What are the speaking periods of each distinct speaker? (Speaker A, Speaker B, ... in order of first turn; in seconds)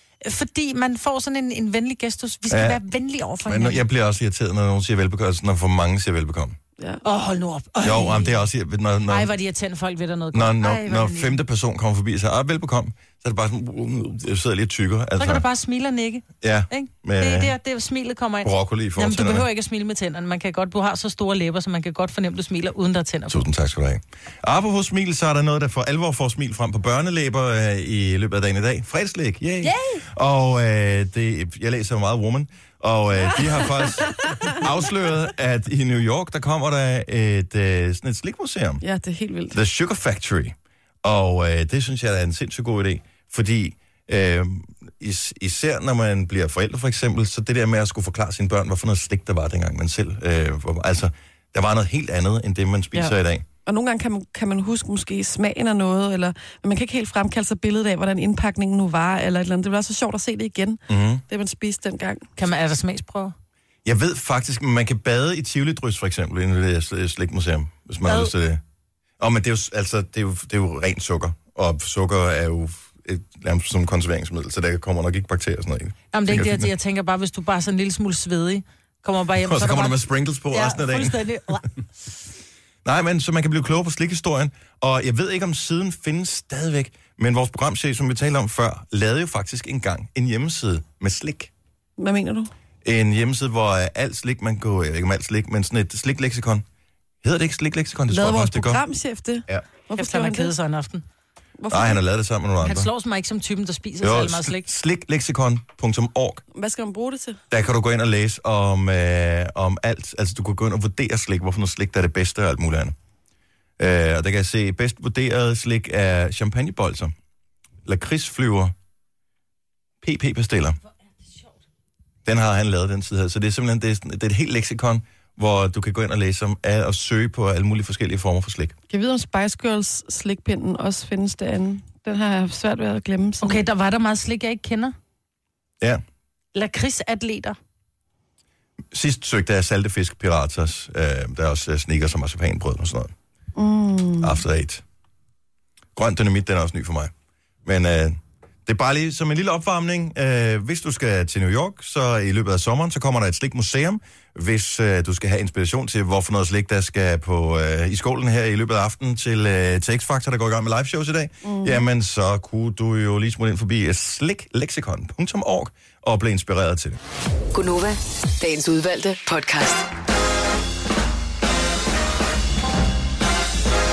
Speaker A: 0.2-3.8, 7.0-8.4, 9.1-11.4, 15.2-23.4, 29.6-30.0, 62.4-63.3, 68.0-68.3, 76.1-81.7, 99.9-101.0, 102.6-104.7, 133.4-134.9, 136.5-137.6
Speaker B: 2.5-2.8, 3.4-6.6, 7.8-9.3, 10.3-15.4, 16.4-17.5, 18.4-19.5, 23.3-38.8, 39.5-53.5, 60.9-61.2, 63.8-68.6, 69.2-76.7, 79.4-81.2, 82.8-91.5, 92.8-96.6, 97.2-98.8, 101.7-102.9, 104.0-106.4, 107.5-112.9, 113.8-117.1, 117.8-118.7, 120.0-120.8, 122.2-128.8, 138.9-143.1, 144.2-144.8, 145.9-147.1, 147.6-167.0
Speaker C: 38.8-39.6, 53.6-62.3, 92.0-92.5, 98.1-100.5, 101.6-102.0, 106.5-107.4, 128.9-133.6, 143.6-144.4, 161.4-161.8
Speaker D: 167.5-169.9